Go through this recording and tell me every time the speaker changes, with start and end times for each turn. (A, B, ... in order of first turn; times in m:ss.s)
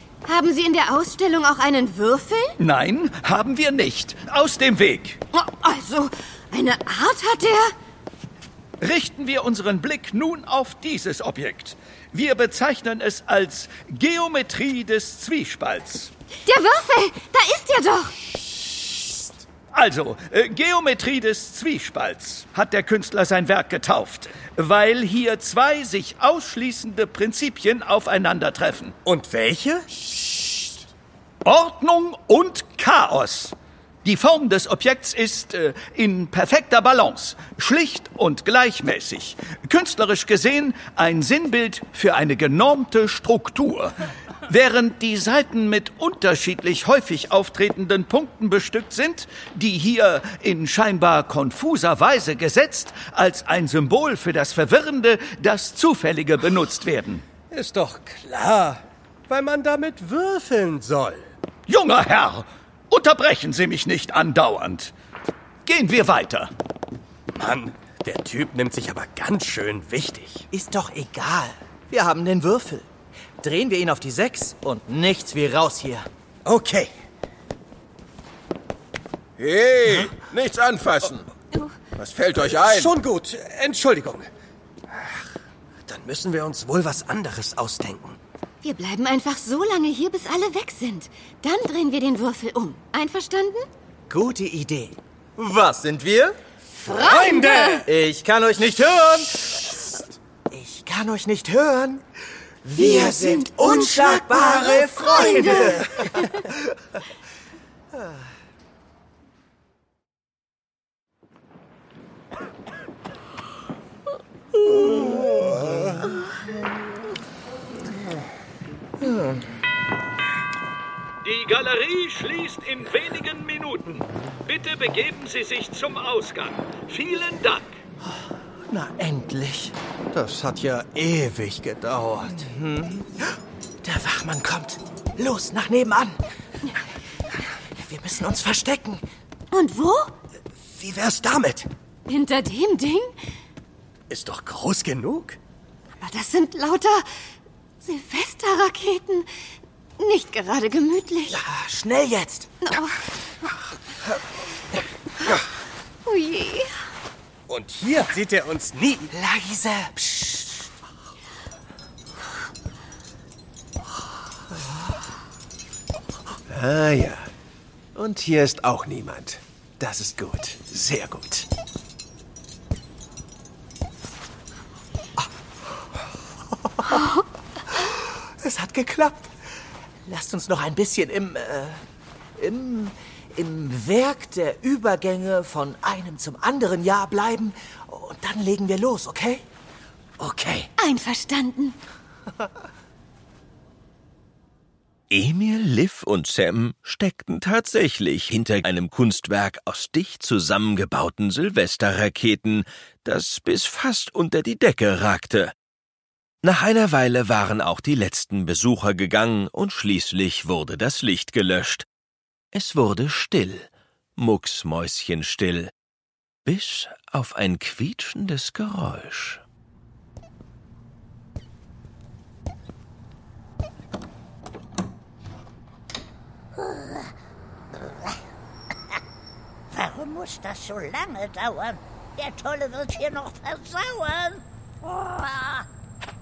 0:00.2-0:02.6 A
0:02.6-0:05.2 B
0:05.3-0:07.7 A
0:08.8-0:16.1 B
0:16.4-0:18.1 A
0:19.7-0:28.9 B
0:29.0-0:30.7 C
0:31.4-0:33.5 B
0:34.0-0:43.9 B
0:44.5-0:57.2 B
0:57.5-1:01.2 C
1:01.7-1:04.9 B
1:05.6-1:06.5 B
1:07.3-1:10.4 C
1:10.5-1:12.9 D
1:13.4-1:16.0 D
1:16.4-1:16.9 C
1:19.4-1:21.3 E
1:22.0-1:23.0 E
1:22.4-1:24.3 C
1:24.9-1:25.2 C
1:25.8-1:28.2 C
1:28.6-1:33.7 A
1:34.1-1:36.4 D
1:36.8-1:37.8 A
1:36.8-1:37.8 C
1:37.8-1:42.0 D
1:42.6-1:46.4 D
1:42.8-1:46.4 A
1:54.7-1:55.9 D
1:59.0-1:59.4 D
2:01.2-2:07.7 B
2:08.7-2:09.7 D
2:10.1-2:12.4 C
2:12.3-2:13.1 D
2:13.8-2:16.2 D
2:17.8-2:19.0 D
2:19.5-2:20.1 A
2:20.7-2:21.7 C
2:22.1-2:23.1 A
2:24.1-2:25.4 C
2:26.0-2:27.0 A
2:27.8-2:29.3 A
2:30.0-2:31.4 A
2:31.3-2:32.5 D
2:32.6-2:33.0 A
2:36.0-2:36.7 A
2:37.5-2:39.1 C
2:39.1-2:40.6 D
2:46.5-2:47.3 E
2:47.9-2:51.5 E
2:56.7-2:57.0 D
2:57.8-2:59.3 D
3:00.1-3:01.8 D
3:02.4-3:09.4 D
3:10.2-3:10.6 C
3:10.8-3:11.8 A
3:15.1-3:25.5 F
3:26.4-3:31.9 F
3:32.5-3:35.7 F
3:36.4-3:39.4 F
3:49.7-3:55.7 G